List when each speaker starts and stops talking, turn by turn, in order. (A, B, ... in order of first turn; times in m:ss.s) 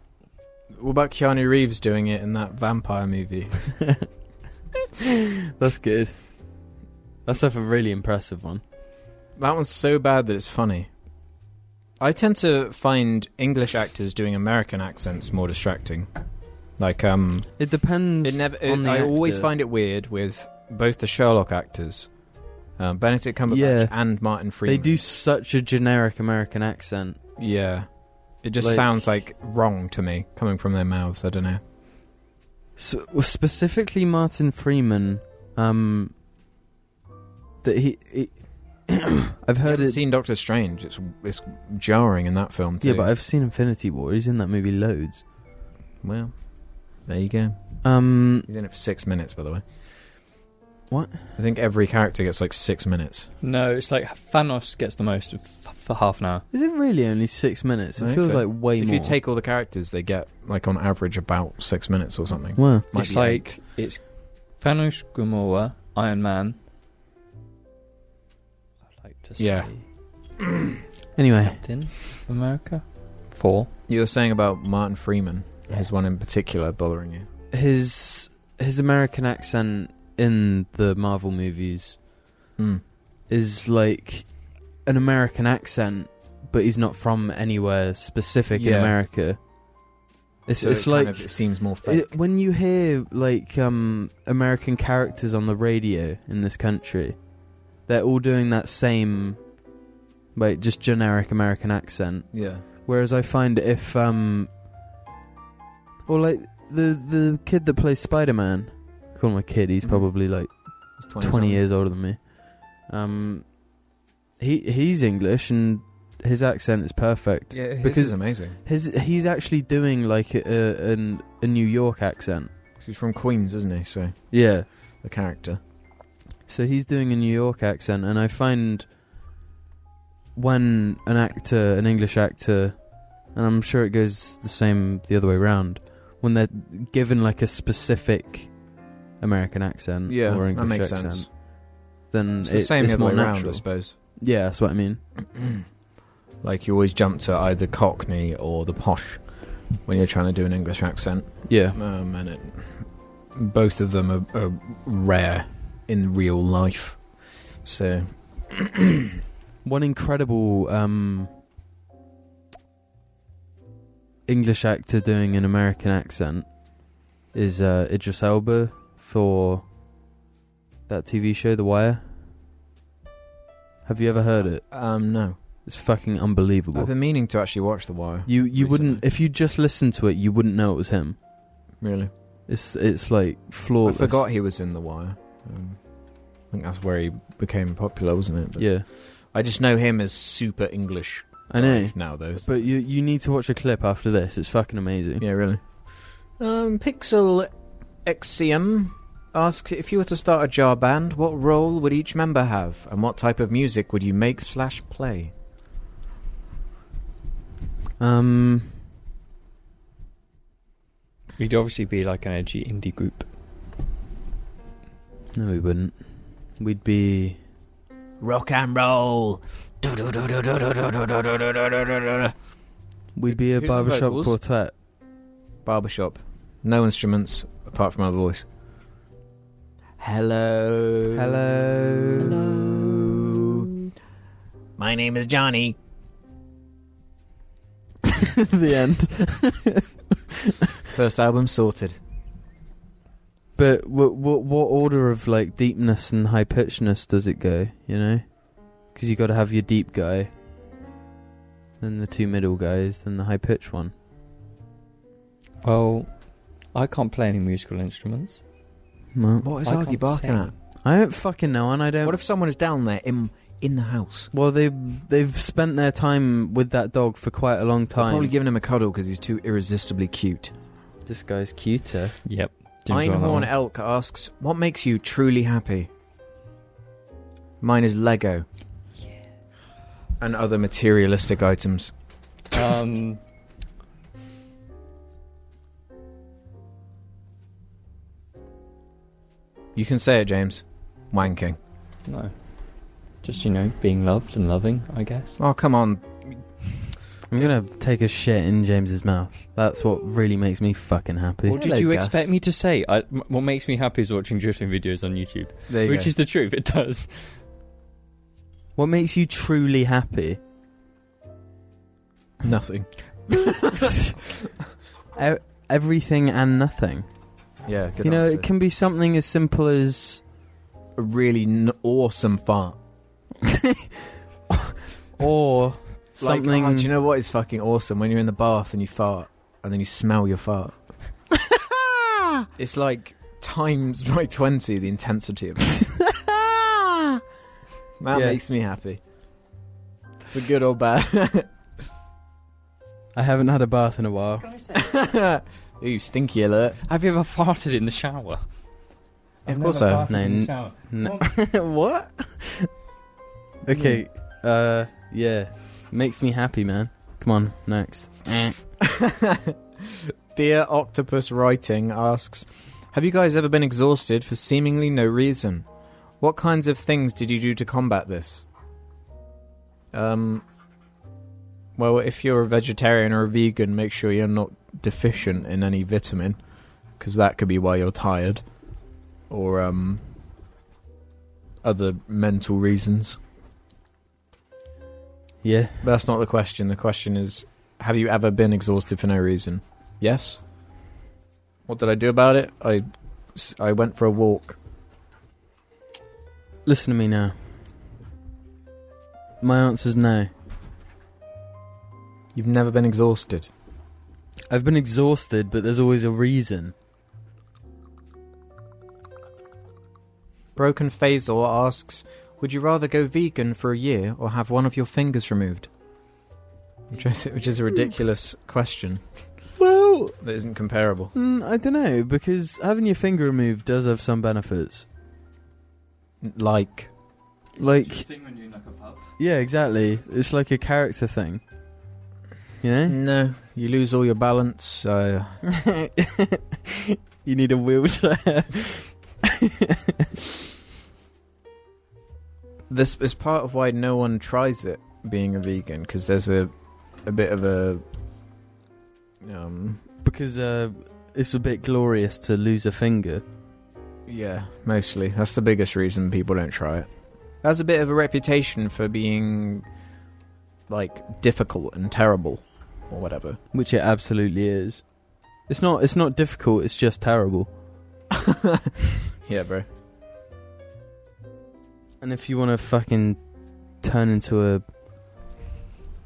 0:00.8-0:03.8 A
0:05.6-0:06.2 B
0:07.2-0:08.6 B
0:09.4-0:10.9 A
0:12.0-0:16.1 A
0:16.8-0:17.6 A
0:17.6-0:19.5 B
0:18.2-0:22.2 A
0:22.8-0:25.0 A
0:23.5-0:27.2 B
0:27.4-0:31.6 A
0:28.6-0:29.1 B
0:32.8-0:36.1 B
0:37.6-0:40.0 B
0:39.6-0:43.1 A
0:42.8-0:45.2 B
0:46.0-0:47.8 A
0:47.8-0:48.5 B
0:48.4-0:49.6 A
0:50.9-0:51.3 B
0:51.4-0:53.3 A
0:53.4-0:56.4 C
0:56.5-0:59.2 B
0:58.0-1:03.6 A
1:02.6-1:02.9 B
1:02.9-1:06.6 C
1:09.0-1:09.8 C
1:09.4-1:09.7 A
1:11.2-1:11.6 B
1:11.4-1:13.7 C
1:13.9-1:17.3 A
1:17.5-1:22.0 B
1:22.6-1:22.8 A
1:23.3-1:29.4 B
1:28.5-1:28.9 A
1:30.5-1:37.2 B
1:30.6-1:32.1 A
1:37.8-1:39.4 B
1:40.3-1:44.5 B
1:42.3-1:42.6 A
1:46.0-1:53.5 B
1:51.0-1:51.6 A
1:54.4-2:02.5 B
1:57.5-1:58.6 A
2:02.8-2:05.6 A
2:04.3-2:04.7 B
2:06.5-2:08.9 B
2:10.3-2:18.6 B
2:19.2-2:21.5 B
2:20.1-2:21.3 A
2:22.1-2:25.0 B
2:22.4-2:24.0 A
2:26.4-2:38.9 A
2:31.5-2:31.8 B
2:39.6-2:41.3 B
2:44.3-2:46.5 B
2:47.3-2:49.6 B
2:50.9-2:52.0 B
2:53.8-2:54.6 B
2:54.7-2:55.4 A
2:55.6-2:56.9 B
2:56.7-2:59.0 A
2:58.2-3:01.2 B
3:01.8-3:02.1 A
3:02.5-3:04.2 B
3:03.8-3:12.5 A
3:08.6-3:08.8 B
3:11.5-3:15.2 B
3:15.2-3:17.5 A
3:18.0-3:25.3 A
3:28.0-3:28.8 B
3:31.4-3:33.2 C
3:35.3-3:36.0 B
3:36.6-3:37.4 B
3:38.2-3:42.3 A
3:43.1-3:44.7 B
3:43.3-3:44.4 A
3:45.6-3:48.4 A
3:50.0-3:51.4 A
3:51.1-3:53.2 B
3:52.4-3:53.2 A
3:54.8-3:55.8 A
3:58.1-3:59.8 B
4:00.9-4:02.0 A
4:03.6-4:10.3 B
4:11.8-4:13.9 B
4:15.6-4:16.1 C
4:16.7-4:18.4 C
4:19.1-4:19.5 B
4:19.4-4:20.5 A
4:19.6-4:20.5 C
4:20.8-4:22.2 B
4:22.0-4:24.3 A
4:24.3-4:28.3 B
4:28.0-4:30.5 A
4:31.0-4:32.2 B
4:32.2-4:33.5 C
4:32.9-4:35.9 A
4:37.6-4:38.4 A
4:40.2-4:41.9 A
4:42.5-4:43.2 C
4:49.7-4:51.6 A
4:52.0-4:52.4 C
4:53.2-4:55.4 C
4:55.4-4:56.4 A
4:57.3-5:01.6 B
5:01.5-5:02.3 A
5:01.5-5:07.4 C
5:05.7-5:06.1 A
5:08.8-5:10.4 B
5:12.4-5:14.2 A
5:15.1-5:17.1 B
5:17.6-5:18.5 A
5:18.0-5:20.2 B
5:21.0-5:22.8 A
5:24.5-5:26.9 B
5:26.2-5:30.9 A
5:32.6-5:36.0 A
5:38.0-5:39.0 A
5:38.1-5:38.4 B
5:40.3-5:41.5 A
5:43.1-5:44.5 B
5:44.4-5:45.0 C
5:44.7-5:46.8 A
5:46.8-5:48.4 C
5:49.4-5:50.1 A
5:49.4-5:51.3 C
5:50.1-5:52.7 B
5:53.6-5:58.6 B
5:53.7-5:54.0 A
5:58.8-6:05.7 A
6:06.2-6:08.4 A
6:09.9-6:10.4 A
6:11.8-6:16.4 A
6:16.9-6:18.4 A
6:19.3-6:20.0 A
6:21.6-6:23.2 A
6:25.4-6:25.8 B
6:25.8-6:30.4 A
6:31.7-6:34.6 A
6:36.6-6:37.3 B
6:39.4-6:40.3 B
6:42.3-6:43.5 A
6:44.5-6:46.7 B
6:50.6-6:55.7 A
6:56.9-6:59.2 A
6:59.6-7:00.2 B
7:00.2-7:01.1 A
7:01.1-7:04.8 B
7:06.2-7:06.9 A
7:07.6-7:08.1 B
7:07.6-7:09.1 C
7:09.2-7:11.4 B
7:12.6-7:12.9 B
7:12.8-7:15.4 A
7:15.5-7:20.1 B
7:22.7-7:27.8 A
7:29.2-7:29.8 A
7:30.0-7:33.2 B
7:34.1-7:36.9 A
7:37.4-7:39.6 A
7:40.7-7:43.4 A
7:43.5-7:44.8 B
7:45.5-7:47.5 B
7:48.3-7:48.6 A
7:49.2-7:49.6 A
7:52.0-7:53.2 B
7:53.8-7:54.6 B